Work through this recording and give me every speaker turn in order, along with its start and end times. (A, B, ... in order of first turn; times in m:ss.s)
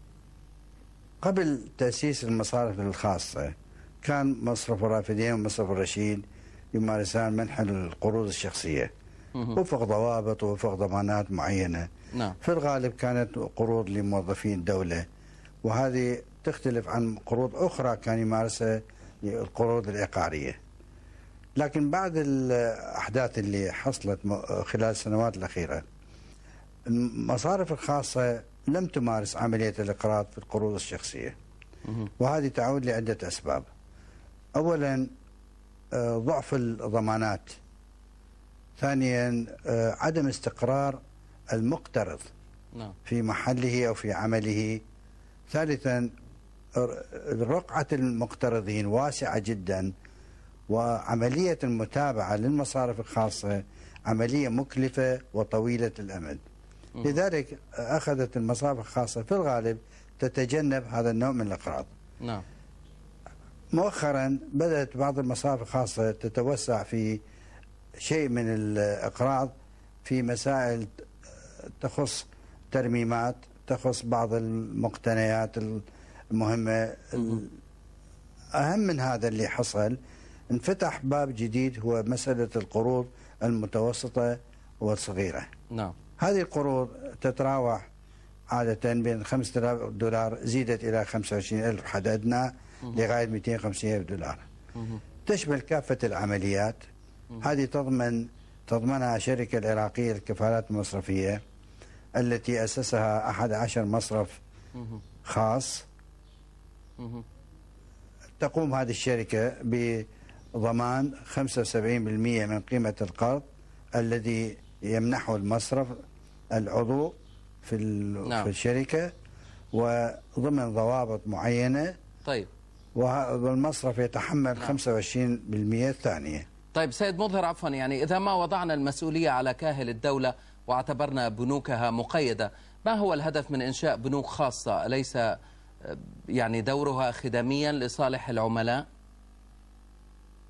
0:01.2-0:08.9 A
0:09.5-0:11.9 A
0:12.4-0:15.0 A
0:15.6-0:20.6 A
0:21.6-0:25.8 A
0:26.9-0:31.3 A
0:32.2-0:33.7 A
0:34.5-0:35.1 A
0:35.9-0:37.6 A
0:38.8-0:41.0 A
0:41.5-0:42.3 A
0:43.0-0:44.8 A
0:45.5-0:46.1 A
0:46.7-0:49.9 A
0:50.7-0:56.4 A
0:57.0-1:01.9 A
1:03.7-1:07.2 A
1:08.0-1:09.5 A
1:10.0-1:11.1 A
1:11.8-1:17.5 A
1:18.5-1:20.0 A
1:20.5-1:25.5 A
1:25.7-1:26.0 B
1:26.2-1:27.8 A
1:28.5-1:34.4 A
1:34.8-1:35.0 B
1:35.2-1:36.8 A
1:37.4-1:41.4 A
1:42.2-1:44.4 A
1:45.2-1:45.8 A
1:47.0-1:47.2 B
1:48.4-1:56.0 A
1:56.5-1:59.1 A
1:58.2-1:58.5 B
1:59.7-2:02.0 A
2:03.0-2:06.4 A
2:06.7-2:18.8 B